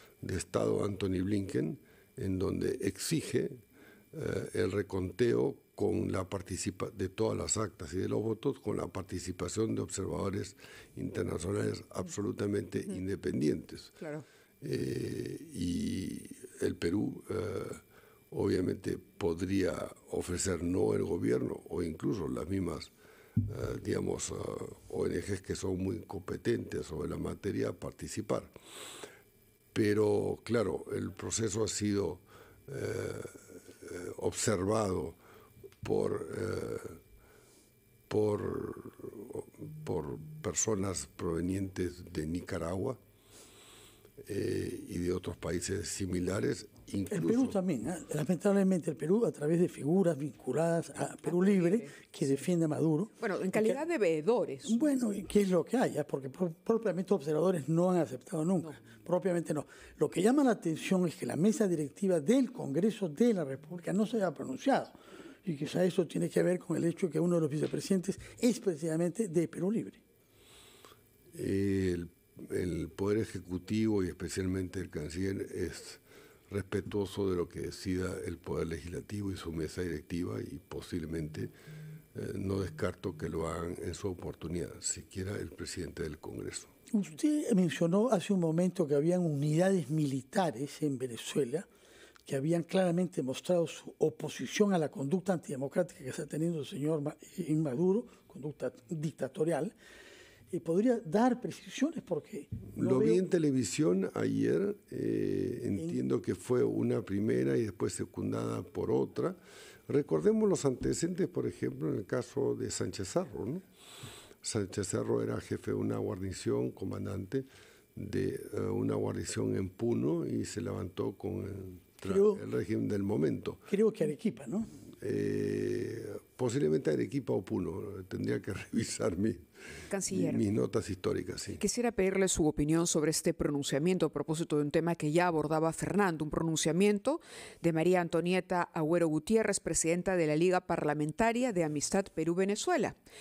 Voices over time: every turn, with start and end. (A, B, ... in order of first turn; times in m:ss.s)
0:00.2-0:03.6 A
0:04.1-0:14.0 A
0:14.0-0:14.2 B
0:14.6-0:22.9 A
0:23.4-0:28.5 A
0:29.7-0:35.2 A
0:35.8-0:37.0 A
0:38.1-0:43.0 A
0:44.2-0:47.6 A
0:47.1-0:53.8 C
0:51.2-0:51.9 B
0:53.2-0:54.8 B
0:54.6-1:10.0 C
1:11.3-1:21.5 A
1:22.1-1:26.7 A
1:26.9-1:31.7 C
1:32.2-1:39.7 C
1:40.5-1:43.2 C
1:42.7-1:53.6 A
1:54.4-2:03.6 A
2:02.0-2:02.4 C
2:03.7-2:04.7 C
2:05.0-2:09.4 A
2:09.9-2:10.4 B
2:10.1-2:11.6 A
2:11.5-2:23.0 B